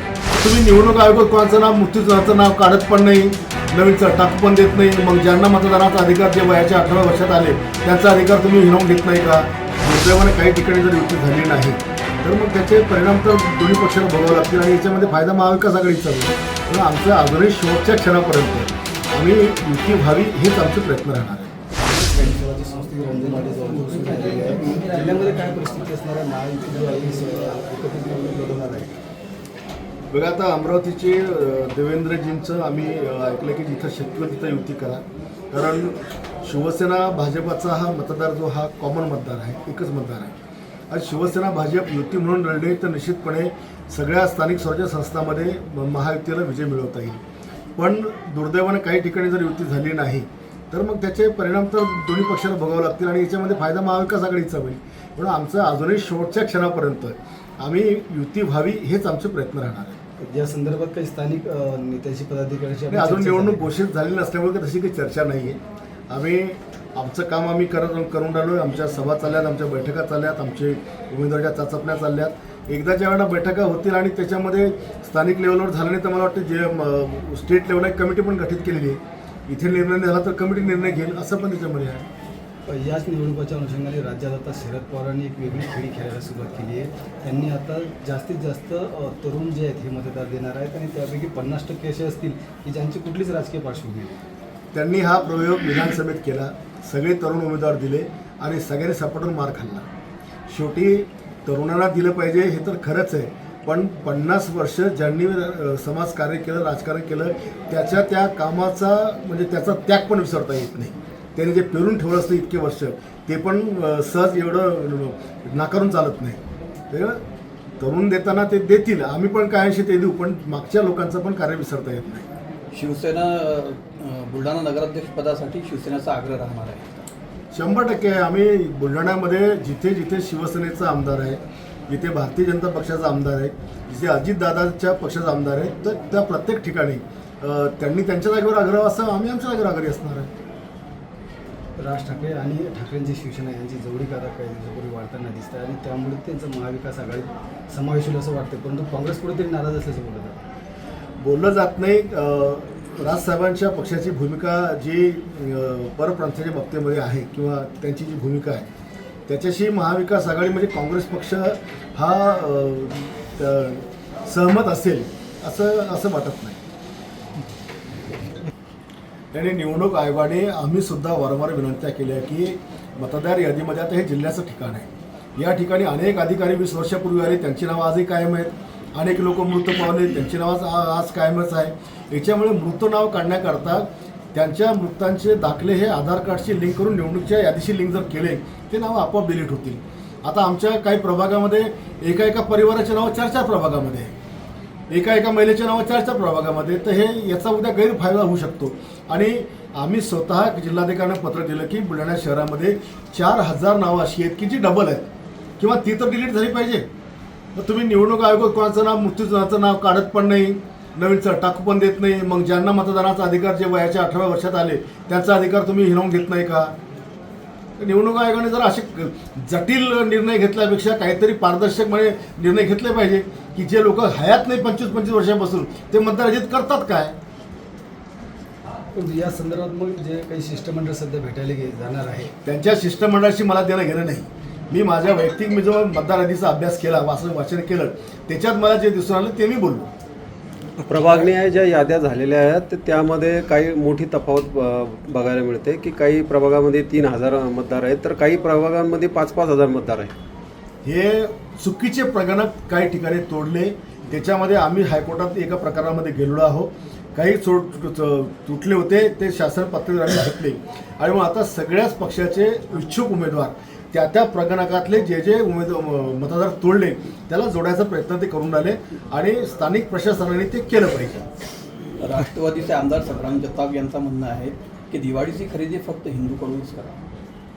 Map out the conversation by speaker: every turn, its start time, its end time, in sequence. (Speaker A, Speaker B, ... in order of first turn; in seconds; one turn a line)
Speaker A: 0.3-21.6
Speaker B: 21.8-29.0
Speaker A: 30.1-40.4
Speaker A: 40.9-47.2
Speaker A: 47.8-60.0
Speaker B: 60.2-63.7
Speaker A: 62.9-82.1
Speaker B: 82.7-94.1
Speaker A: 94.7-99.9
Speaker A: 100.5-117.2
Speaker A: 117.8-122.3
Speaker C: 122.7-126.9
Speaker A: 127.5-140.3
Speaker B: 141.8-150.4
Speaker A: 151.2-158.7
Speaker A: 159.3-166.6
Speaker A: 169.3-194.1
Speaker A: 194.9-205.1
Speaker A: 205.6-206.9
Speaker A: 207.6-216.7
Speaker A: 217.8-227.2
Speaker B: 228.9-232.3
Speaker A: 232.4-239.9
Speaker D: 240.8-250.1
Speaker A: 250.8-271.2
Speaker C: 272.0-277.0